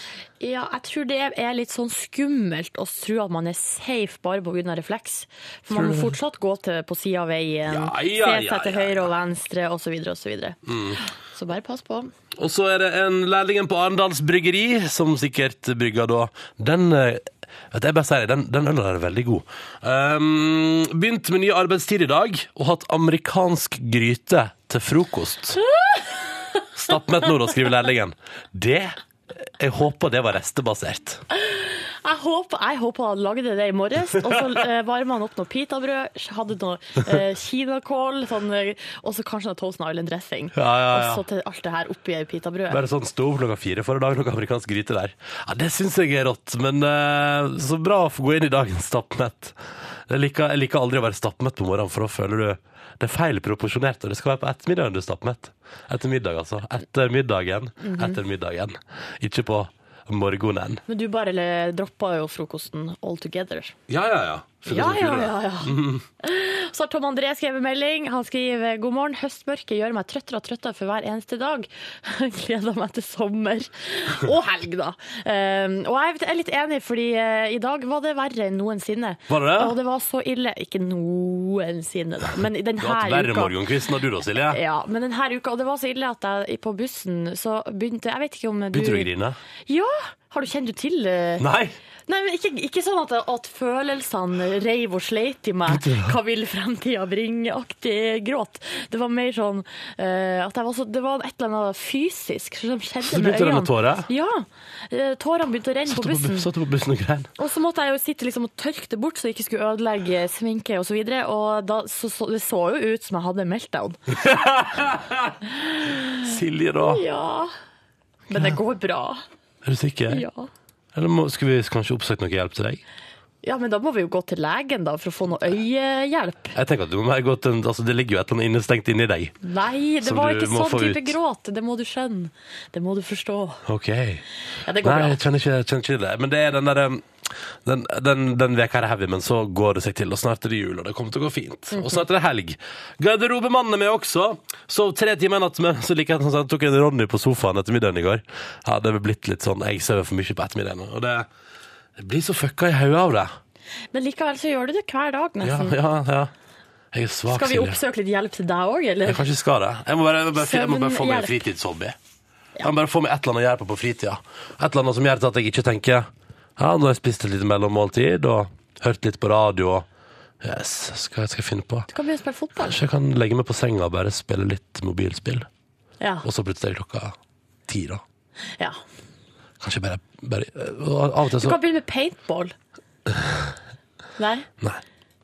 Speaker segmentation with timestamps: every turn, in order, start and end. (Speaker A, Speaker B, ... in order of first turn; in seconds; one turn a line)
Speaker A: 0.4-12.1
Speaker B: 5.7-6.2
Speaker B: 7.7-9.1
Speaker B: 10.7-11.0
Speaker B: 12.3-25.6
Speaker A: 25.7-26.0
Speaker B: 26.7-31.2
Speaker A: 31.3-42.8
Speaker B: 40.5-41.2
Speaker B: 42.7-60.8
Speaker A: 57.8-58.2
Speaker A: 60.9-63.7
Speaker B: 63.9-66.0
Speaker A: 64.7-83.5
Speaker B: 79.3-79.8
Speaker B: 82.8-84.6
Speaker A: 84.5-89.1
Speaker B: 88.7-89.4
Speaker A: 89.7-91.4
Speaker B: 91.4-91.8
Speaker A: 92.1-106.5
Speaker B: 95.7-96.2
Speaker B: 103.0-104.1
Speaker B: 105.9-107.3
Speaker A: 107.4-114.0
Speaker B: 114.1-115.4
Speaker A: 115.7-116.2
Speaker B: 116.2-117.0
Speaker A: 116.8-117.5
Speaker A: 118.3-119.2
Speaker B: 119.6-120.2
Speaker A: 120.1-120.5
Speaker B: 120.9-122.8
Speaker A: 123.4-126.6
Speaker B: 126.5-129.3
Speaker A: 129.4-133.6
Speaker B: 130.0-131.2
Speaker B: 133.7-134.2
Speaker A: 134.5-135.2
Speaker B: 134.8-151.3
Speaker A: 141.7-142.0
Speaker B: 152.0-153.3
Speaker A: 153.9-155.8
Speaker B: 155.4-156.3
Speaker B: 156.9-157.8
Speaker A: 157.3-159.2
Speaker B: 159.1-161.9
Speaker A: 160.3-161.4
Speaker B: 162.6-169.8
Speaker B: 170.4-171.9
Speaker A: 171.9-172.8
Speaker B: 172.6-175.5
Speaker A: 176.0-176.2
Speaker B: 176.2-177.2
Speaker B: 177.7-178.0
Speaker B: 179.6-181.6
Speaker A: 181.4-182.5
Speaker B: 183.1-183.5
Speaker A: 184.2-184.5